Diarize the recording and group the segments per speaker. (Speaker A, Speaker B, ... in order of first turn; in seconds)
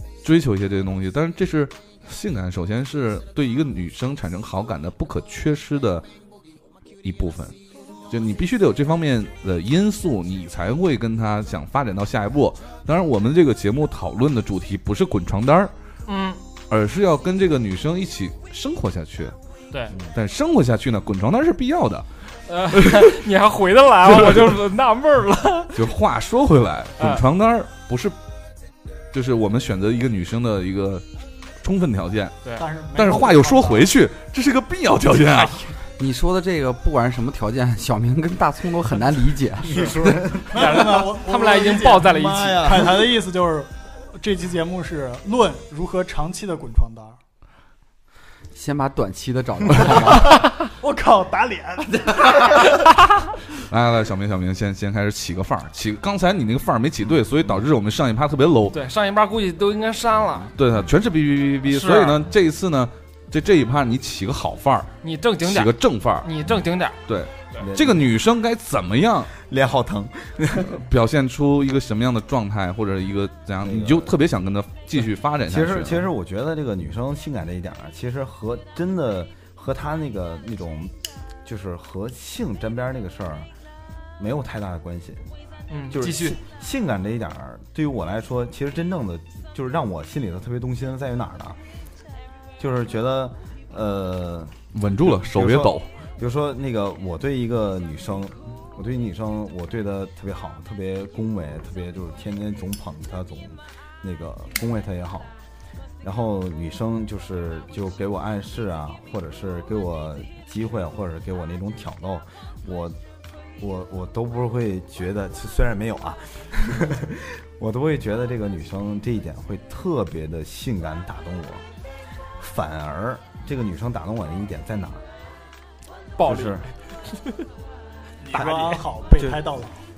Speaker A: 0.2-6.1, 7.0-7.6, 8.1-15.7, 16.7-19.4, 20.1-22.1, 22.7-23.2, 24.1-24.6, 25.8-28.2, 29.1-31.1, 31.6-32.4, 32.9-35.7, 53.6-58.8, 60.5-66.3, 67.1-69.3, 70.7-76.0, 94.7-95.9
Speaker B: 16.1-16.4, 22.5-25.9, 27.0-27.2, 40.5-42.9, 58.7-60.5, 61.6-62.2, 65.0-67.0, 85.7-86.4, 126.2-127.5
Speaker C: 32.6-33.9, 40.5-47.2, 50.8-52.8, 128.2-129.8
Speaker D: 36.0-39.9, 48.5-50.4
Speaker E: 39.6-41.7, 42.2-43.0, 67.6-68.1, 69.4-70.8, 73.6-74.1, 75.5-83.5, 84.2-85.3, 85.9-91.6, 92.6-105.3, 106.0-113.0, 113.6-121.6, 122.4-125.0, 126.2-126.7, 128.3-129.4